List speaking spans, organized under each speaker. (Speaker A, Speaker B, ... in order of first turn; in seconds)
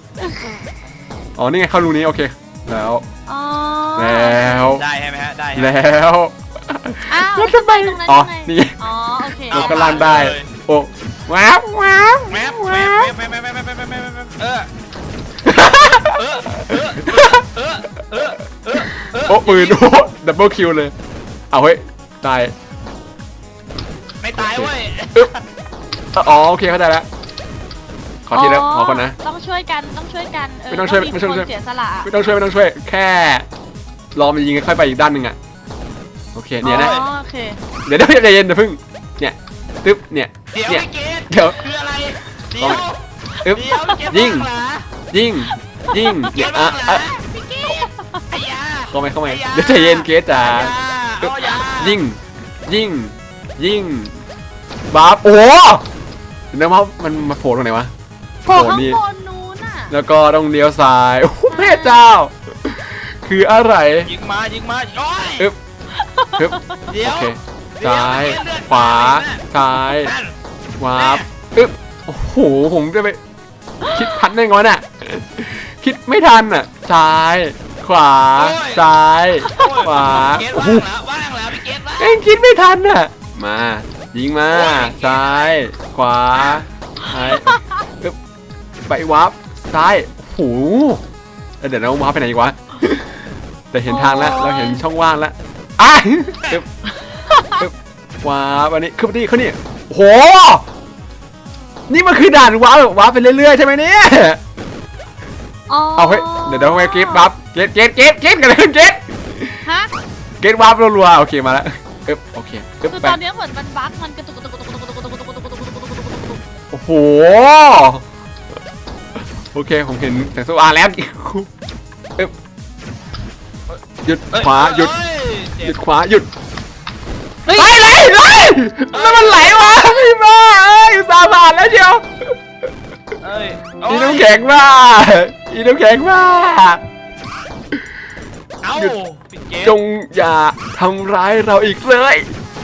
Speaker A: 0.2-0.6, 3.3-4.4, 7.1-10.0, 28.3-32.1, 36.6-37.6, 43.6-44.2, 45.9-46.5, 47.3-48.2, 58.4-59.9, 61.5-62.0, 65.9-66.8, 73.8-74.1, 87.1-87.8, 93.8-94.8, 97.1-97.6, 105.7-107.3, 109.6-109.9, 112.9-116.4, 127.5-128.2
Speaker B: 1.4-3.0, 4.0-4.8, 5.5-8.8, 9.5-13.1, 15.4-17.4, 19.2-20.9, 21.5-22.5, 24.4-25.3, 26.1-27.1, 28.3-29.1, 30.7-31.5, 32.0-33.5, 34.1-35.4, 36.3-37.0, 37.9-41.6, 42.6-42.8, 43.5-44.5, 45.1-47.0, 48.9-54.2, 54.9-55.8, 56.5-57.9, 58.5-59.0, 59.9-64.1, 66.4-70.1, 70.8-73.2, 73.9-80.9, 82.0-88.2, 88.9-91.0, 91.6-93.1, 93.7-96.7, 97.5-100.7, 101.9-104.4, 106.0-109.6, 110.4-113.2, 116.7-118.0, 119.5-121.5, 124.0-125.0, 125.6-126.3, 127.5-132.4, 133.8-136.8, 139.6-142.3
Speaker C: 4.7-5.7, 9.5-10.5, 12.3-14.7, 15.5-19.9, 24.2-25.4, 36.6-37.1, 40.5-44.9, 46.3-52.0, 64.0-65.5, 66.9-70.3, 70.9-71.2, 78.3-78.8, 79.5-82.2, 84.5-85.6, 123.7-125.8, 128.9-129.8, 133.2-134.3, 138.6-139.8